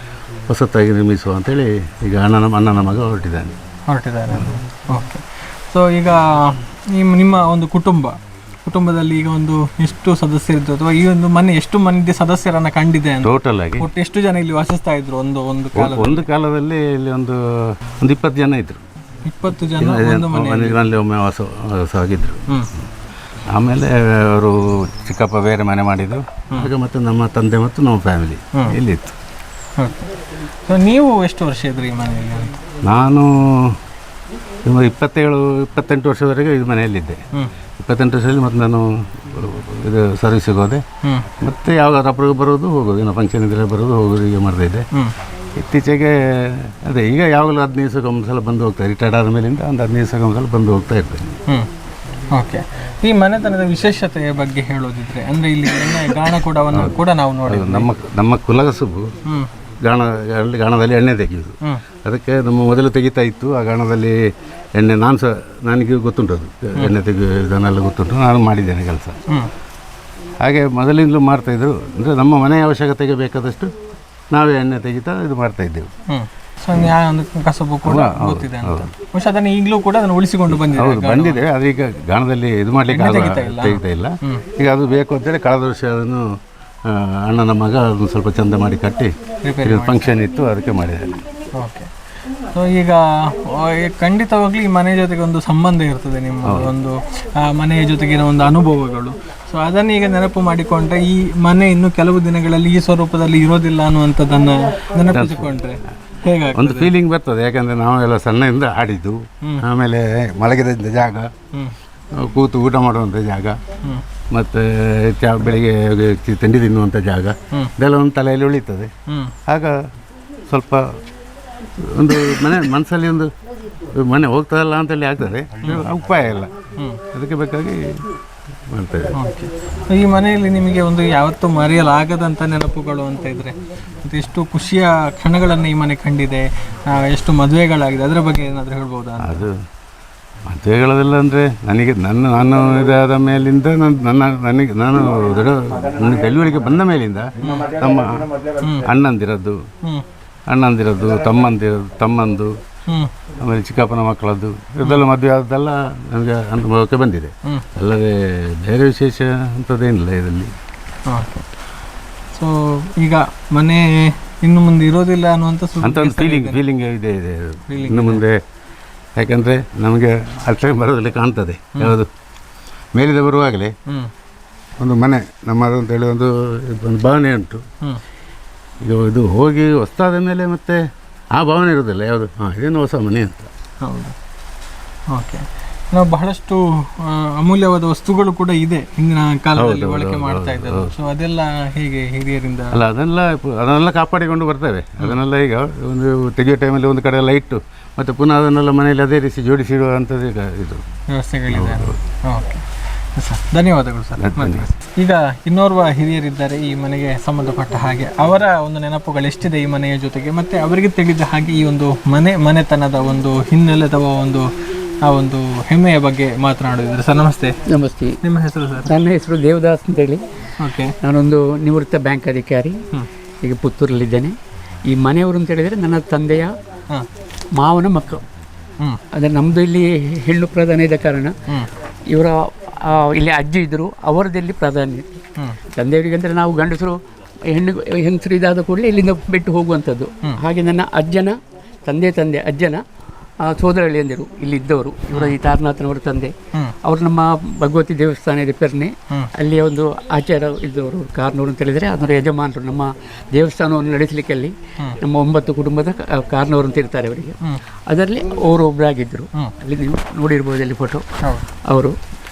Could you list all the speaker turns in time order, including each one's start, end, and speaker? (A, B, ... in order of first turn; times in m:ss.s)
0:00.5-0:03.6 A
0:03.9-0:16.2 B
0:13.2-0:13.9 A
0:15.7-0:17.4 A
0:18.0-0:18.8 A
0:19.3-0:20.8 B
0:19.8-0:22.4 A
0:23.5-0:29.1 A
0:29.8-0:30.1 B
0:30.7-0:32.5 B
0:32.8-0:33.8 A
0:34.6-0:37.2 A
0:37.8-0:40.8 A
0:41.4-0:44.8 A
0:45.5-0:51.4 A
0:52.3-0:57.9 B
0:56.7-0:59.2 A
0:59.8-1:04.2 A
1:04.7-1:09.2 A
1:10.4-1:13.7 A
1:14.3-1:15.9 A
1:16.1-1:21.4 B
1:17.8-1:18.9 A
1:20.5-1:26.3 A
1:22.9-1:24.4 B
1:26.8-1:31.2 A
1:29.4-1:30.1 B
1:31.5-1:31.9 B
1:32.5-1:46.9 B
1:36.4-1:36.7 A
1:45.1-1:45.5 A
1:46.5-1:51.3 A
1:52.1-1:53.6 A
1:54.3-1:58.9 A
1:59.1-1:59.3 B
1:59.5-1:59.8 A
2:00.5-2:01.0 A
2:01.8-2:03.3 A
2:03.9-2:06.5 A
2:07.1-2:08.0 A
2:08.7-2:09.2 A
2:09.1-2:19.4 B
2:19.2-2:19.6 A
2:20.5-2:29.7 A
2:27.4-2:27.7 B
2:28.6-2:28.9 B
2:30.5-2:32.6 A
2:33.4-2:40.5 A
2:41.1-2:41.4 B
2:42.3-2:46.6 B
2:45.8-2:48.4 A
2:47.7-2:48.2 B
2:49.2-2:52.1 A
2:52.9-2:53.7 A
2:54.8-2:57.6 A
2:58.8-3:00.8 A
3:01.3-3:03.5 A
3:03.8-3:04.1 B
3:05.1-3:12.8 B
3:09.5-3:10.9 A
3:12.7-3:20.8 A
3:21.1-3:22.6 B
3:21.5-3:22.0 A
3:23.2-3:34.5 B
3:24.2-3:24.6 A
3:35.0-3:37.5 B
3:37.7-3:38.2 C
3:38.2-3:38.9 B
3:38.8-3:40.2 C
3:40.6-3:40.9 B
3:41.0-3:42.8 C
3:43.4-3:44.3 C
3:44.9-3:46.5 C
3:47.5-3:48.2 C
3:49.1-3:51.3 C
3:52.1-3:55.2 C
3:55.7-4:02.8 C
4:03.4-4:21.0 C
4:21.7-4:22.0 C